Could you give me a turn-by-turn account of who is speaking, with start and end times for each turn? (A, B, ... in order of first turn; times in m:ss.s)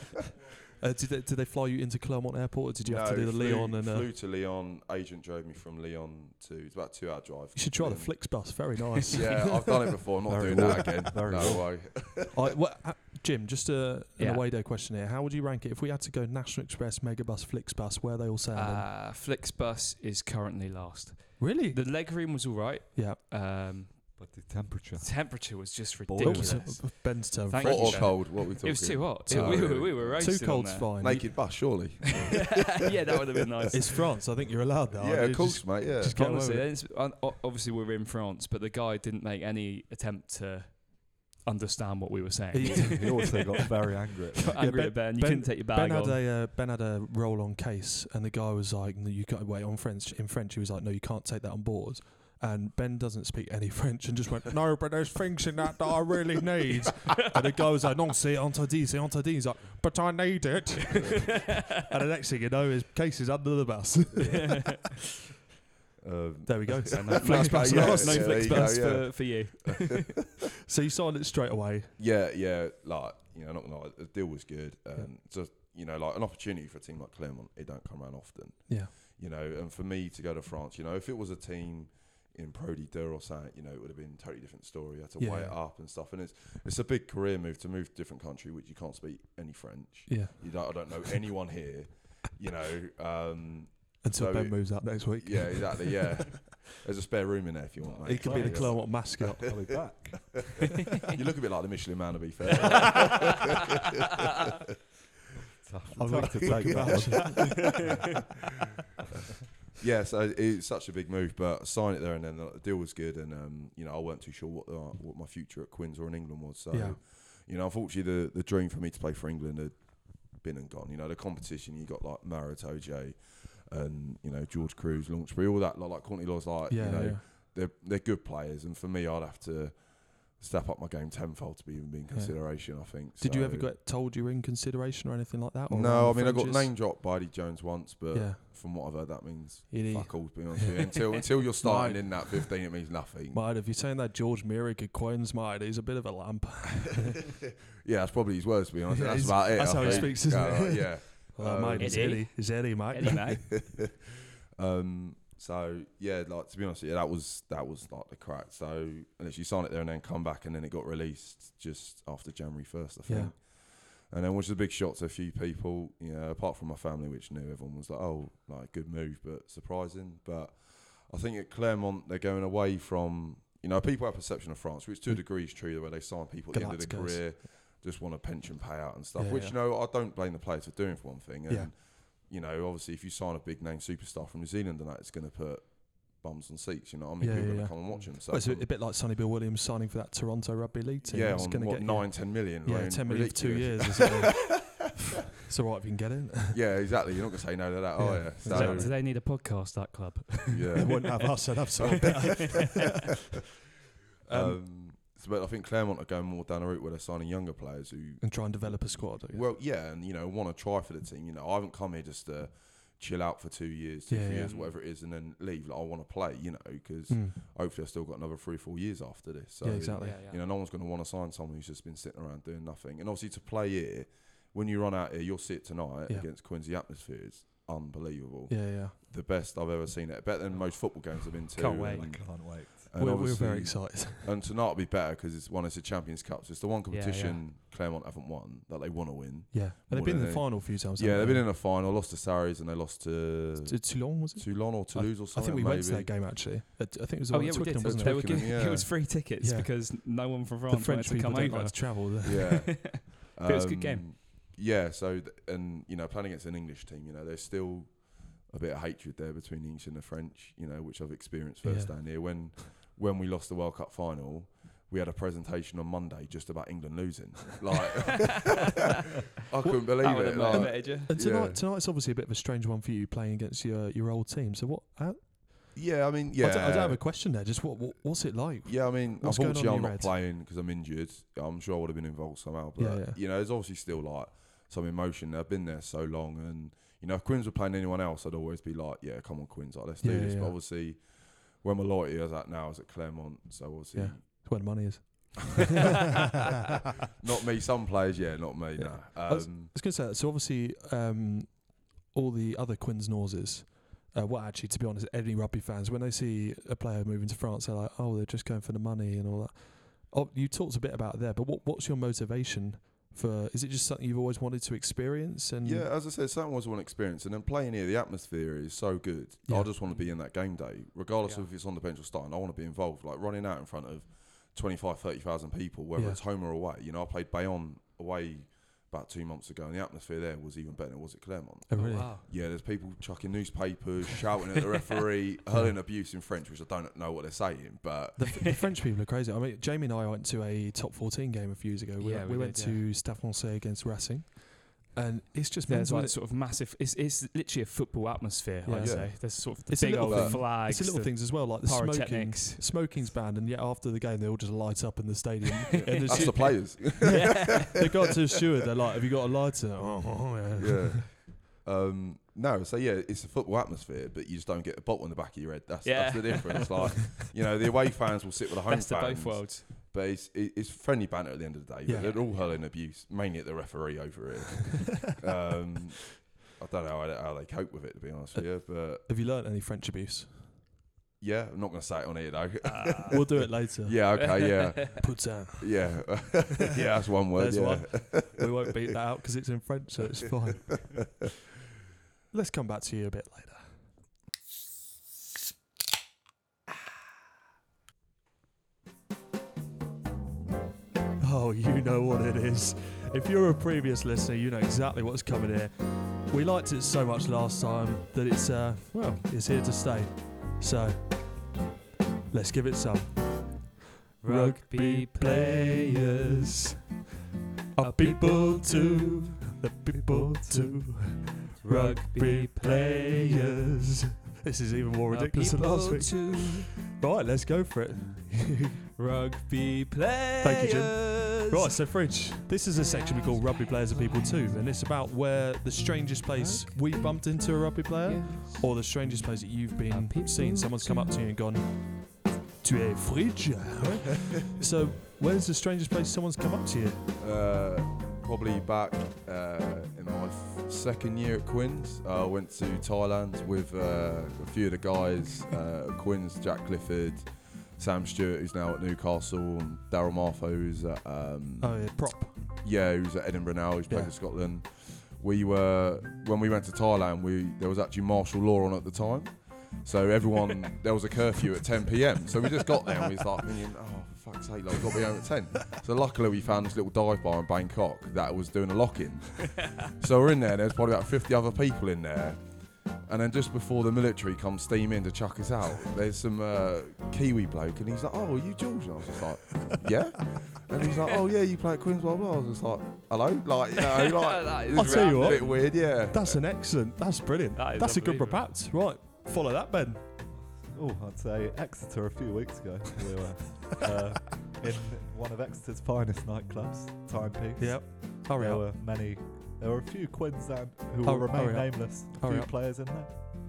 0:00.8-0:04.1 A
0:02.8-0:08.5 B
0:07.6-0:09.7 A
0:09.1-0:12.4 B
0:10.3-0:11.7 C
0:12.3-0:18.9 A
0:14.2-0:14.4 D
0:18.6-0:24.2 D
0:21.4-0:21.8 A
0:24.2-0:26.8 C
0:25.0-0:31.2 D
0:26.2-0:28.2 A
0:27.6-0:30.4 B
0:29.3-0:31.4 A
0:31.0-0:33.1 B
0:32.5-0:34.0 D
0:33.7-0:36.7 A
0:35.0-0:36.2 B
0:36.1-0:43.2 D
0:42.5-0:43.4 A
0:42.7-0:44.6 C
0:44.4-0:46.2 D
0:44.5-1:04.8 A
1:01.4-1:01.6 D
1:04.5-1:04.8 D
1:06.0-1:09.9 B
1:06.5-1:08.9 A
1:06.9-1:10.1 D
1:10.6-1:11.9 A
1:12.0-1:39.2 B
1:25.2-1:25.6 A
1:30.1-1:30.5 A
1:34.0-1:36.3 A
1:37.8-1:40.8 C
1:38.0-1:39.6 A
1:41.0-1:43.5 B
1:45.6-1:47.9 C
1:46.0-1:47.9 A
1:46.2-1:47.3 B
1:49.8-2:13.7 B
1:56.7-1:57.0 A
2:06.7-2:07.2 A
2:12.1-2:16.7 A
2:15.7-2:23.4 B
2:18.1-2:18.4 A
2:19.7-2:22.5 A
2:23.3-2:27.3 A
2:27.7-2:32.3 B
2:28.9-2:33.5 A
2:29.8-2:30.2 D
2:31.8-2:33.6 D
2:33.1-2:33.9 B
2:34.6-3:08.7 B
2:43.1-2:43.3 A
2:56.5-2:57.3 A
2:59.2-2:59.6 A
3:07.2-3:14.8 A
3:11.0-3:14.6 B
3:15.4-3:16.6 A
3:16.5-3:19.0 B
3:18.0-3:18.9 A
3:18.5-3:21.0 D
3:20.5-3:21.2 B
3:20.8-3:22.9 A
3:21.8-3:22.6 B
3:21.8-3:22.2 D
3:24.3-3:24.6 A
3:24.3-4:06.2 B
3:28.2-3:29.5 A
3:34.1-3:34.5 A
3:34.4-3:34.7 D
3:37.1-3:37.4 A
3:39.6-3:40.2 A
3:40.0-3:40.4 D
3:48.5-3:49.0 A
3:51.6-3:52.1 D
3:51.8-3:52.9 C
3:53.0-3:54.4 A
3:56.9-3:57.4 D
3:59.5-4:01.5 A
4:03.6-4:08.6 A
4:07.3-4:14.1 D
4:07.8-4:08.9 B
4:09.4-4:09.9 A
4:10.7-4:12.5 A
4:12.2-4:28.7 B
4:21.6-4:22.2 A
4:29.4-4:31.6 B
4:29.6-4:35.8 A
4:29.8-4:31.1 D
4:35.7-4:37.0 B
4:36.4-4:40.1 A
4:38.6-4:54.5 B
4:42.8-4:43.2 A
4:50.0-4:50.6 A
4:53.9-4:56.0 A
4:57.2-4:59.7 B
4:58.8-5:15.9 A
5:15.6-5:38.6 B
5:19.5-5:19.7 A
5:19.8-5:20.1 D
5:21.2-5:21.5 D
5:31.7-5:32.1 A
5:31.8-5:32.2 D
5:35.5-5:35.8 A
5:38.2-5:46.2 A
5:42.0-5:42.8 D
5:45.7-5:52.7 D
5:48.6-6:01.0 A
5:48.8-5:49.3 B
5:50.0-5:50.4 B
5:55.8-5:57.8 D
5:55.9-5:57.8 B
6:00.6-6:19.0 B
6:05.8-6:07.0 D
6:08.7-6:09.7 D
6:11.9-6:12.1 A
6:12.0-6:12.5 D
6:18.4-6:20.5 A
6:21.2-6:28.5 B
6:22.6-6:23.1 D
6:23.1-6:24.3 A
6:24.2-6:25.0 D
6:25.0-6:26.2 A
6:27.3-6:31.1 A
6:32.3-6:33.8 A
6:41.2-6:51.4 A
6:52.3-6:56.8 A
6:54.2-6:56.5 D
6:57.8-7:08.8 A
6:57.8-6:59.4 D
7:01.6-7:03.6 D
7:05.1-7:06.7 D
7:09.0-7:11.7 D
7:10.4-7:27.1 A
7:12.9-7:14.6 D
7:16.3-7:21.2 D
7:27.2-7:42.0 B
7:41.6-7:42.4 A
7:42.6-8:16.4 B
8:14.0-8:15.7 D
8:14.8-8:20.0 A
8:17.6-8:18.5 D
8:20.5-8:33.2 C
8:27.6-8:28.6 A
8:31.0-8:32.5 A